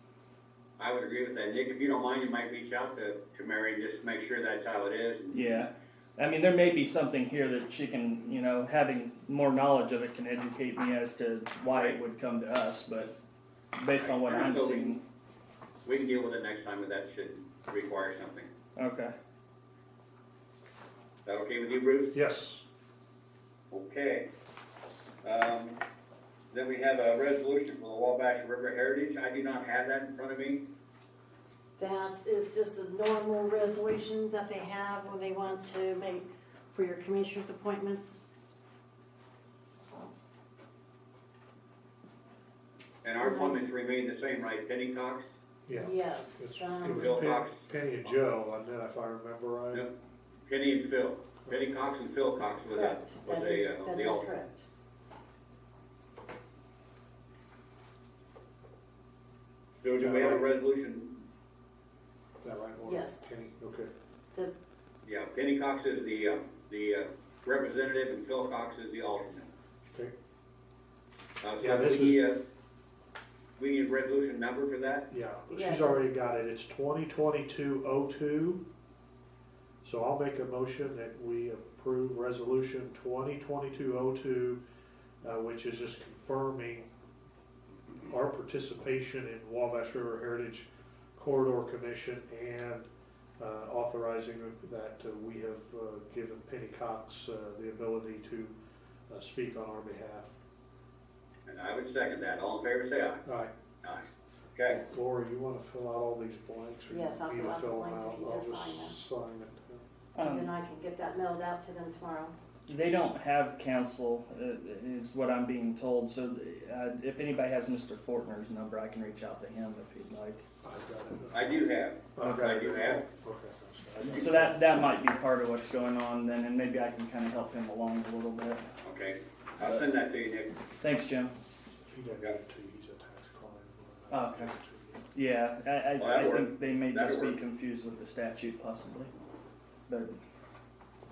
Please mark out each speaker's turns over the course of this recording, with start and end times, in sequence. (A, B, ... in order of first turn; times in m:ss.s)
0:00.8-0:05.6 A
0:05.3-0:13.1 B
0:11.6-0:12.0 A
0:13.8-0:15.0 B
0:14.0-0:15.0 A
0:15.8-0:18.5 A
0:18.8-0:19.1 B
0:21.2-0:22.1 A
0:22.1-0:22.6 C
0:23.7-0:24.3 A
0:25.2-0:25.8 A
0:26.5-0:30.6 A
0:31.8-0:38.2 D
0:43.0-0:45.4 A
0:43.2-0:43.6 D
0:45.6-0:49.8 C
0:45.7-0:47.2 D
0:46.9-0:47.7 A
0:50.5-0:54.2 A
0:52.7-0:54.6 D
0:59.7-1:01.2 A
0:59.9-1:00.4 C
1:02.4-1:03.9 C
1:02.8-1:03.3 D
1:05.0-1:09.5 A
1:11.4-1:12.4 A
1:11.6-1:12.2 C
1:13.6-1:15.1 A
1:15.1-1:18.6 C
1:15.5-1:15.9 D
1:19.8-1:24.6 C
1:25.2-1:26.9 C
1:28.1-1:32.9 C
1:33.4-1:38.6 C
1:39.1-1:40.3 C
1:41.4-1:43.2 A
1:43.2-1:43.5 C
1:43.8-1:44.8 A
1:44.7-1:49.8 C
1:46.9-1:49.0 D
1:50.2-1:50.5 B
1:50.2-1:52.4 D
1:52.7-2:00.4 B
2:00.6-2:01.5 C
2:01.3-2:03.0 A
2:02.1-2:05.0 C
2:04.0-2:08.6 B
2:08.8-2:10.6 A
2:10.8-2:11.3 B
2:11.9-2:15.0 C
2:14.1-2:14.5 B
2:15.1-2:19.1 B
2:16.0-2:17.4 A
2:19.9-2:20.2 B